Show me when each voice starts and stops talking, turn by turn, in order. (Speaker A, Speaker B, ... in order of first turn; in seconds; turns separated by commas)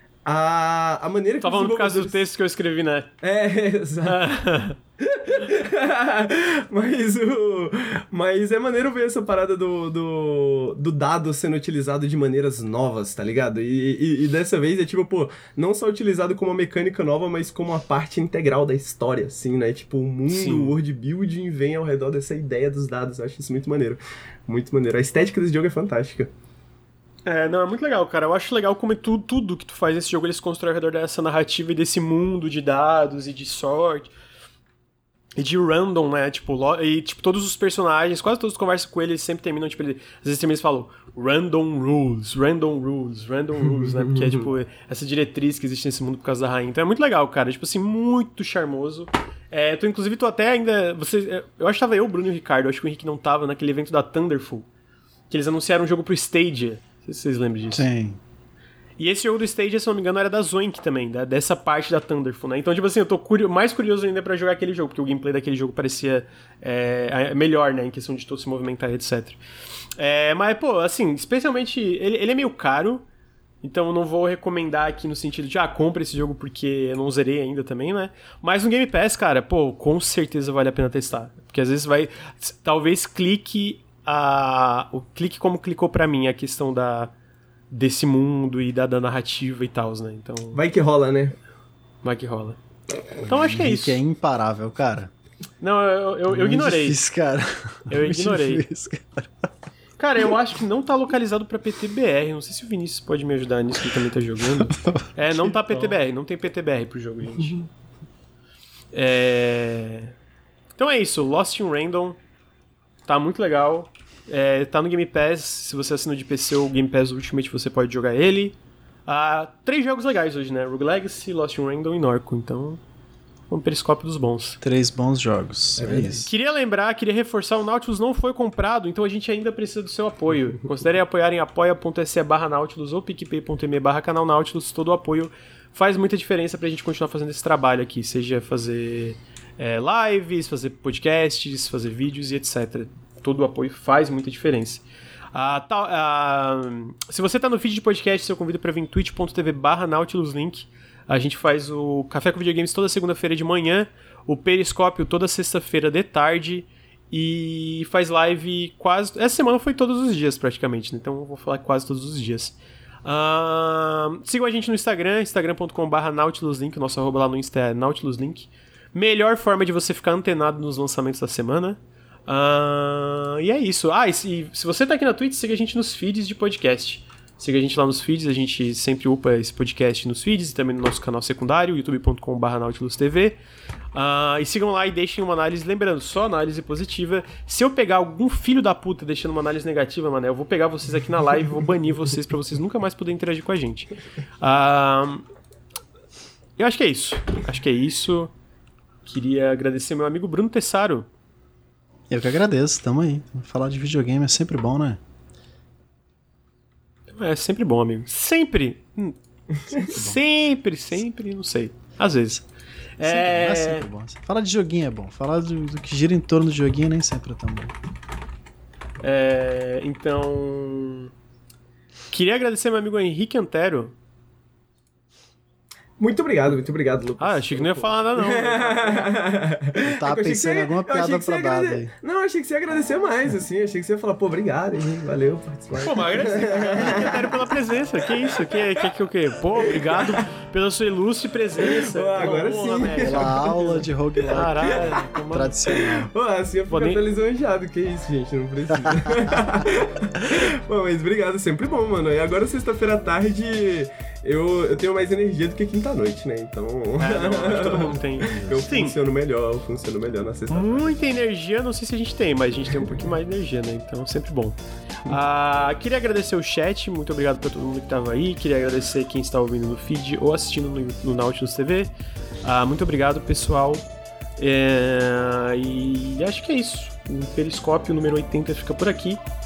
Speaker A: 0.2-2.2, Speaker B: 1.4-3.1, Speaker A: 3.2-4.3, Speaker B: 4.0-4.8, Speaker A: 5.0-26.3, Speaker B: 20.3-20.8, Speaker B: 27.2-34.1, Speaker B: 35.4-54.7, Speaker B: 55.3-57.9, Speaker C: 57.7-58.2, Speaker B: 59.0-69.4, Speaker B: 70.0-73.0, Speaker B: 73.6-87.1, Speaker B: 87.7-90.6, Speaker A: 90.5-91.4, Speaker B: 92.0-92.6, Speaker B: 93.2-94.0, Speaker C: 93.2-95.1, Speaker B: 95.6-97.0, Speaker C: 96.3-99.5, Speaker B: 97.9-98.7, Speaker B: 100.0-107.6, Speaker C: 104.7-105.5, Speaker B: 108.9-110.2, Speaker B: 110.8-112.2, Speaker B: 113.1-122.8, Speaker B: 123.5-124.6, Speaker C: 124.6-126.3, Speaker A: 125.8-126.1, Speaker B: 126.2-144.8, Speaker B: 145.3-183.4, Speaker B: 183.9-195.3, Speaker B: 196.6-198.3, Speaker B: 199.1-201.1, Speaker C: 202.1-205.0, Speaker B: 207.1-209.2, Speaker B: 209.7-212.4, Speaker C: 209.8-210.2, Speaker B: 213.0-213.9, Speaker C: 213.0-217.8, Speaker B: 219.0-221.1, Speaker B: 222.1-223.9, Speaker A: 226.0-237.4, Speaker B: 227.2-229.1, Speaker C: 229.8-231.9, Speaker B: 235.8-243.6, Speaker A: 239.7-240.0, Speaker A: 241.6-244.8, Speaker C: 243.0-246.1, Speaker B: 244.3-245.6, Speaker A: 245.7-261.0, Speaker B: 246.7-247.0, Speaker C: 248.7-249.3, Speaker B: 257.0-258.9, Speaker B: 260.5-271.9, Speaker B: 272.4-273.9, Speaker B: 274.4-279.2